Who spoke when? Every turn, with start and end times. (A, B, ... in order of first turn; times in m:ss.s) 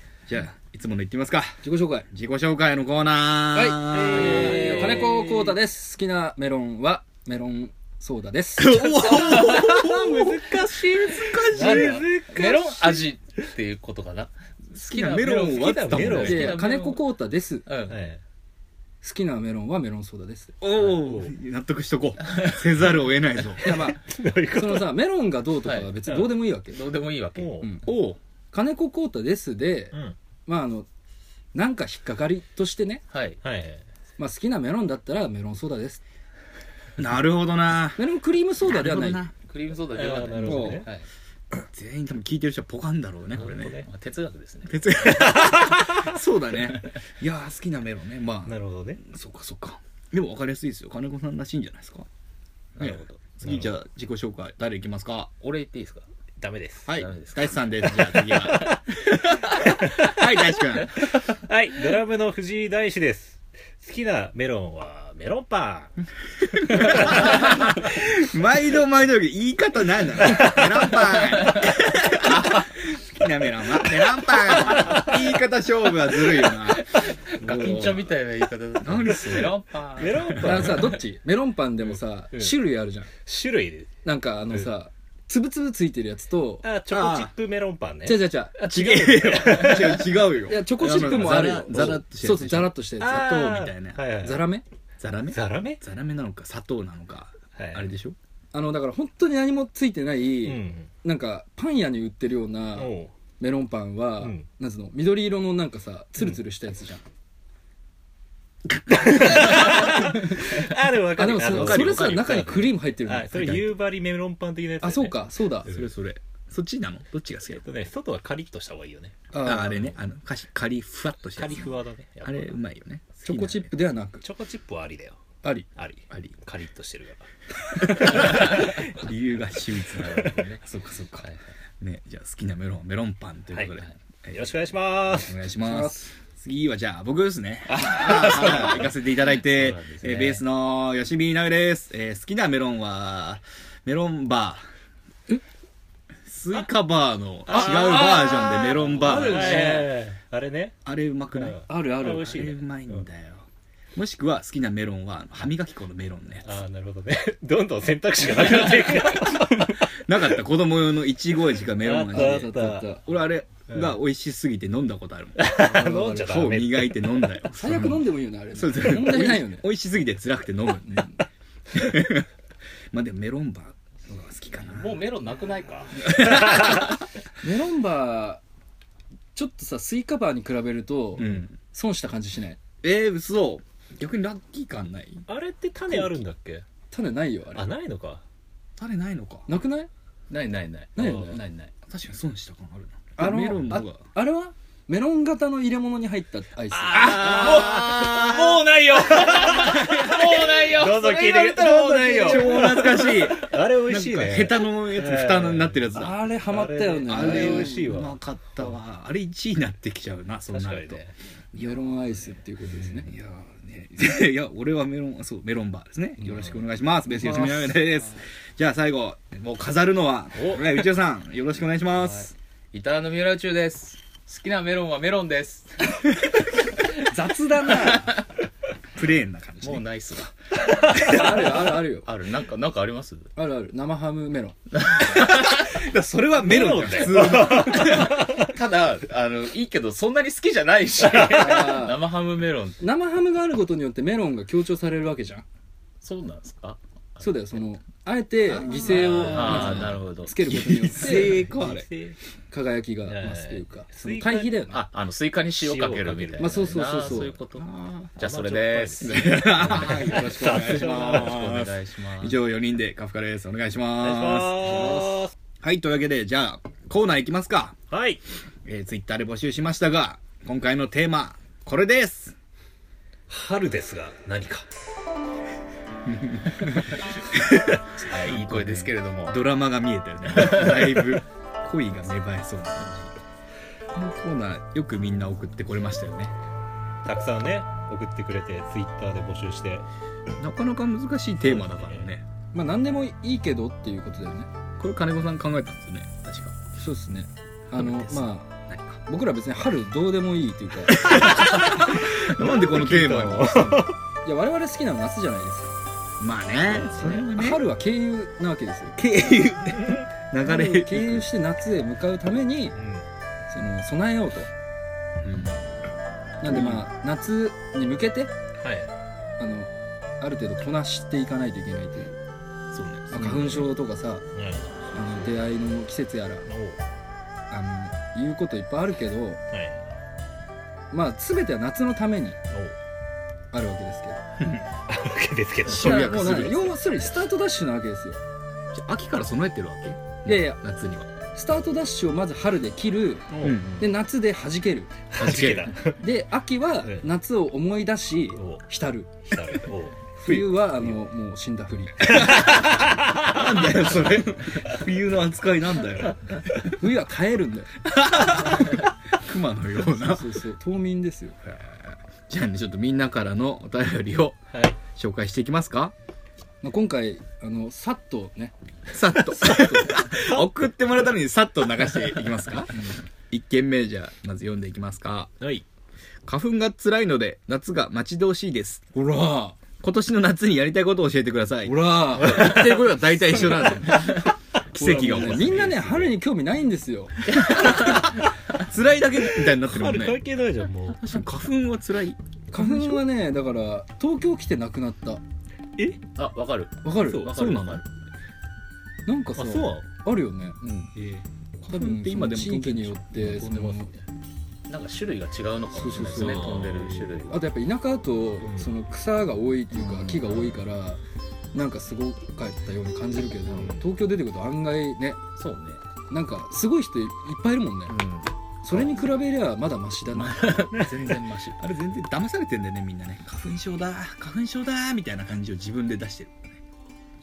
0:00.3-0:04.5 A
0:01.6-0:02.1 B
0:03.5-0:09.3 B
0:03.9-0:05.5 C
0:04.1-0:05.4 D
0:08.6-0:12.1 A
0:09.2-0:10.3 D
0:09.3-0:13.1 C
0:11.0-0:17.0 D
0:14.7-0:16.6 A
0:15.3-0:16.6 C
0:16.2-0:17.7 B
0:17.7-0:18.0 D
0:17.9-0:18.2 C
0:19.0-0:20.6 B
0:20.6-0:23.7 A
0:20.8-0:21.4 C
0:23.6-0:26.8 B
0:23.6-0:24.9 C
0:25.6-0:25.9 D
0:26.1-0:26.3 C
0:26.7-0:27.8 D
0:27.4-0:27.7 C
0:27.9-0:28.2 A
0:28.5-0:30.0 B
0:30.5-0:30.9 B
0:31.5-0:33.0 B
0:33.1-0:33.4 D
0:33.4-0:33.8 C
0:34.2-0:36.0 B
0:37.0-0:39.3 A
0:38.0-0:39.2 B
0:39.4-0:41.1 D
0:39.9-0:40.9 C
0:40.4-0:40.8 B
0:41.6-0:43.8 A
0:43.4-0:43.9 C
0:43.4-0:44.8 D
0:44.7-0:52.1 A
0:45.1-0:46.0 C
0:48.5-0:49.0 C
0:52.8-0:53.2 D
0:52.8-0:55.3 A
0:53.4-0:53.7 C
0:55.4-0:56.1 D
0:56.4-0:56.9 C
0:56.8-1:01.0 A
0:56.9-0:58.7 D
0:58.1-0:58.9 C
0:59.5-1:06.0 C
1:06.5-1:18.0 A
1:06.6-1:07.6 C
1:11.3-1:11.7 D
1:12.2-1:12.6 D
1:14.5-1:15.0 D
1:16.1-1:20.4 D
1:17.5-1:18.0 C
1:18.8-1:20.7 A
1:19.3-1:21.0 C
1:20.4-1:23.1 B
1:21.9-1:22.5 C
1:23.2-1:23.9 C
1:24.0-1:26.7 B
1:26.6-1:30.2 C
1:26.9-1:27.3 A
1:28.0-1:29.3 B
1:28.6-1:34.0 A
1:30.4-1:33.3 B
1:30.8-1:31.9 C
1:33.0-1:34.5 C
1:34.2-1:34.6 B
1:35.0-1:38.2 A
1:35.3-1:35.8 C
1:37.6-1:37.9 C
1:38.5-1:47.0 B
1:40.4-1:40.9 C
1:42.8-1:43.1 C
1:44.2-1:44.4 C
1:48.7-1:50.0 A
1:49.0-1:55.9 C
1:49.8-1:53.7 B
1:51.5-1:52.4 A
1:54.8-1:55.7 B
1:55.7-1:57.7 A
1:57.6-1:59.2 C
1:59.3-1:59.9 B
1:59.4-2:01.7 A
2:01.4-2:02.6 C
2:02.2-2:03.7 A
2:03.2-2:04.2 B
2:04.2-2:05.2 C
2:05.8-2:07.2 C
2:06.1-2:06.4 A
2:07.8-2:11.3 A
2:07.8-2:08.8 C
2:10.0-2:10.6 D
2:11.8-2:14.5 A
2:14.3-2:15.4 C
2:15.1-2:24.7 A
2:15.6-2:16.1 B
2:17.7-2:20.4 D
2:26.3-2:29.7 A
2:27.5-2:30.8 C
2:27.6-2:28.9 D
2:29.0-2:29.9 B
2:30.8-2:31.6 A
2:31.3-2:33.0 C
2:31.7-2:32.4 B
2:32.1-2:36.6 A
2:36.4-2:39.9 C
2:39.3-2:51.2 A
2:41.7-2:42.9 C
2:42.1-2:43.0 B
2:43.7-2:44.0 C
2:45.4-2:47.2 C
2:45.5-2:46.3 B
2:47.5-2:49.6 B
2:51.7-2:52.3 A
2:52.9-2:55.0 A
2:54.6-2:56.1 D
2:56.0-2:57.0 A
2:57.4-2:58.4 B
2:59.4-3:02.6 B
3:01.2-3:01.5 A
3:02.8-3:05.3 A
3:05.3-3:06.6 C
3:05.9-3:06.2 A
3:06.9-3:07.7 B
3:07.6-3:08.2 C
3:08.8-3:09.5 A
3:09.5-3:09.9 B
3:10.3-3:11.7 D
3:11.0-3:11.4 B
3:11.9-3:14.0 A
3:13.2-3:17.5 B
3:16.7-3:25.9 C
3:16.9-3:22.6 D
3:16.9-3:18.3 A
3:21.4-3:26.2 A
3:25.9-3:27.8 B
3:26.5-3:28.7 C
3:27.1-3:31.8 A
3:30.5-3:31.1 C
3:31.6-3:33.1 B
3:32.9-3:42.3 A
3:37.1-3:37.8 B
3:40.4-3:40.7 C
3:42.0-3:46.2 D
3:47.0-3:48.1 B
3:47.7-3:48.1 D
3:49.0-3:50.0 A
3:49.6-3:53.3 D
3:50.9-3:52.1 B
3:53.4-3:54.6 B
3:54.8-3:55.6 D
3:55.0-3:58.3 A
3:56.4-3:58.5 C
3:58.2-4:02.8 D
4:01.0-4:01.5 C
4:01.3-4:02.0 B
4:02.8-4:05.4 B
4:06.0-4:07.6 D
4:07.2-4:11.4 B
4:08.7-4:10.0 C
4:08.7-4:10.4 D
4:08.9-4:11.9 A
4:11.1-4:12.2 C
4:12.5-4:14.9 B
4:13.1-4:14.6 C
4:14.7-4:22.4 D
4:15.6-4:16.8 C
4:16.4-4:17.4 B
4:17.6-4:18.0 A
4:18.2-4:21.6 C
4:19.0-4:25.1 A
4:24.0-4:25.3 C
4:25.6-4:27.8 A
4:27.9-4:28.2 C
4:28.6-4:32.4 A
4:33.3-4:34.7 C
4:36.0-4:43.1 A
4:38.0-4:39.4 D
4:43.9-4:46.4 A
4:47.0-4:49.8 C
4:50.4-4:52.2 A
4:51.4-4:52.1 C
4:52.5-4:54.5 B
4:54.8-4:56.6 A
4:56.8-4:58.5 B
4:57.8-4:59.0 A
4:59.1-5:01.2 B
5:00.9-5:03.9 A
5:01.3-5:04.0 C
5:04.2-5:05.8 B
5:06.2-5:07.6 A
5:06.7-5:07.3 C
5:07.0-5:09.0 B
5:09.0-5:11.3 A
5:09.8-5:10.0 C
5:10.4-5:12.8 B
5:12.8-5:13.0 C
5:13.5-5:14.5 B
5:15.2-5:15.6 A
5:16.4-5:18.3 B
5:16.4-5:16.9 A
5:18.6-5:18.9 C
5:19.4-5:19.7 B
5:20.2-5:22.2 B
5:22.7-5:23.7 A
5:23.1-5:24.2 B
5:24.3-5:24.9 C
5:24.9-5:26.5 B
5:26.5-5:26.8 C
5:27.5-5:29.4 B
5:29.5-5:29.8 C
5:30.9-5:32.4 B
5:32.5-5:32.8 C
5:33.5-5:34.2 B
5:34.4-5:34.7 A
5:34.9-5:36.2 C
5:35.7-5:36.8 A
5:35.7-5:38.2 B
5:38.7-5:41.1 A
5:40.2-5:40.6 B
5:41.3-5:44.9 B
5:43.3-5:43.6 C
5:43.4-5:44.0 A
5:45.1-5:46.0 C
5:45.2-5:45.8 A
5:46.0-5:49.3 B
5:48.4-5:48.6 C
5:49.3-5:50.9 C
5:50.2-5:52.5 B
5:52.1-5:53.5 C
5:52.3-5:52.6 A
5:53.2-5:56.5 A
5:56.6-5:57.7 B
5:57.8-6:00.3 A
6:00.0-6:01.4 B
6:01.4-6:05.9 A
6:04.5-6:04.8 C
6:06.6-6:08.6 B
6:08.9-6:12.8 A
6:09.3-6:10.1 B
6:09.6-6:10.4 C
6:13.3-6:15.4 A
6:16.3-6:18.9 A
6:18.9-6:19.6 B
6:19.8-6:25.9 A
6:21.6-6:27.8 B
6:24.8-6:26.1 C
6:27.3-6:30.2 A
6:29.3-6:31.2 C
6:31.0-6:32.2 A
6:32.5-6:35.2 B
6:36.2-6:37.8 D
6:36.8-6:37.3 B
6:37.3-6:37.8 A
6:39.1-6:40.7 B
6:39.4-6:39.9 C
6:41.0-6:41.2 C
6:41.6-6:43.7 A
6:41.6-6:43.9 B
6:43.3-6:43.9 C
6:44.7-6:47.4 D
6:45.8-6:46.6 B
6:45.9-6:47.2 C
6:47.3-6:51.0 B
6:48.4-6:48.7 C
6:49.9-6:50.4 D
6:51.5-6:55.2 B
6:55.4-6:55.8 D
6:56.1-6:58.0 B
6:57.9-6:58.9 D
6:58.6-7:00.7 B
7:00.4-7:06.6 A
7:00.6-7:01.6 D